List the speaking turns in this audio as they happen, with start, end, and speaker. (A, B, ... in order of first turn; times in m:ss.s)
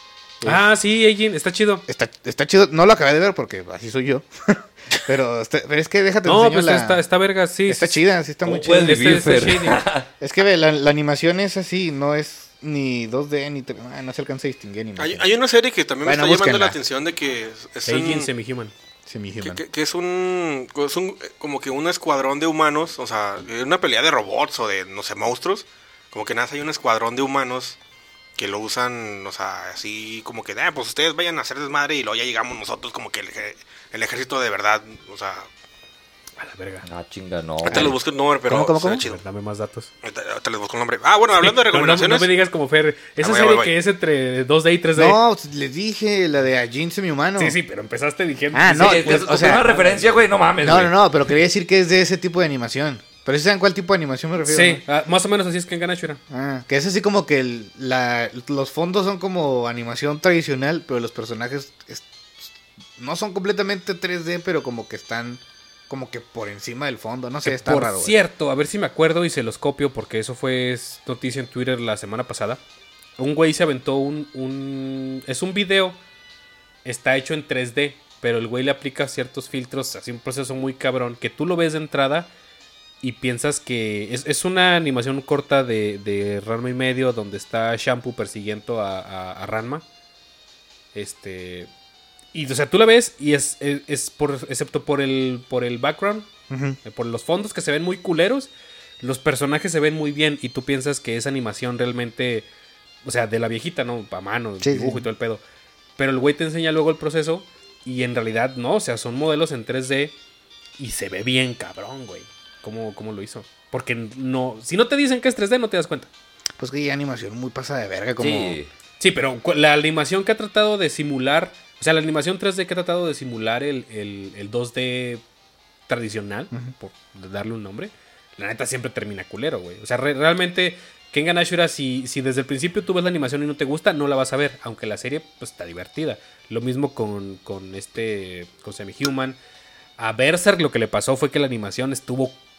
0:00.4-0:00.7 A
0:00.4-0:01.8 B
0:01.9-0:07.0 A
0:06.2-0:09.8 B
0:07.7-0:09.2 A
0:08.4-0:10.1 C
0:10.2-0:15.3 A
0:15.0-0:18.3 D
0:16.0-0:16.8 A
0:17.9-0:18.7 B
0:19.1-0:19.6 A
0:19.4-0:27.8 D
0:28.4-0:35.5 D
0:36.4-0:36.9 B
0:36.8-0:38.0 C
0:37.6-0:38.0 A
0:37.6-0:39.2 D
0:38.5-0:39.0 A
0:39.0-0:39.9 B
0:40.0-0:42.3 D
0:41.4-0:45.2 B
0:43.2-0:43.8 D
0:45.0-0:47.6 A
0:47.4-0:50.2 B
0:48.5-0:49.7 A
0:48.8-0:50.9 C
0:50.6-0:54.8 A
0:54.5-0:56.2 B
0:56.3-1:08.2 A
1:07.4-1:12.6 B
1:13.2-1:16.0 B
1:16.8-1:22.3 B
1:23.0-1:29.8 B
1:30.9-1:31.7 B
1:32.3-1:36.3 B
1:36.5-1:36.8 A
1:36.8-1:38.5 B
1:39.0-1:42.5 B
1:43.0-1:45.4 B
1:44.6-1:45.1 A
1:46.0-1:50.1 B
1:50.8-1:56.1 B
1:56.6-1:58.6 A
1:58.2-1:58.7 C
1:59.0-2:05.2 B
2:05.9-2:19.4 B
2:20.0-2:22.4 B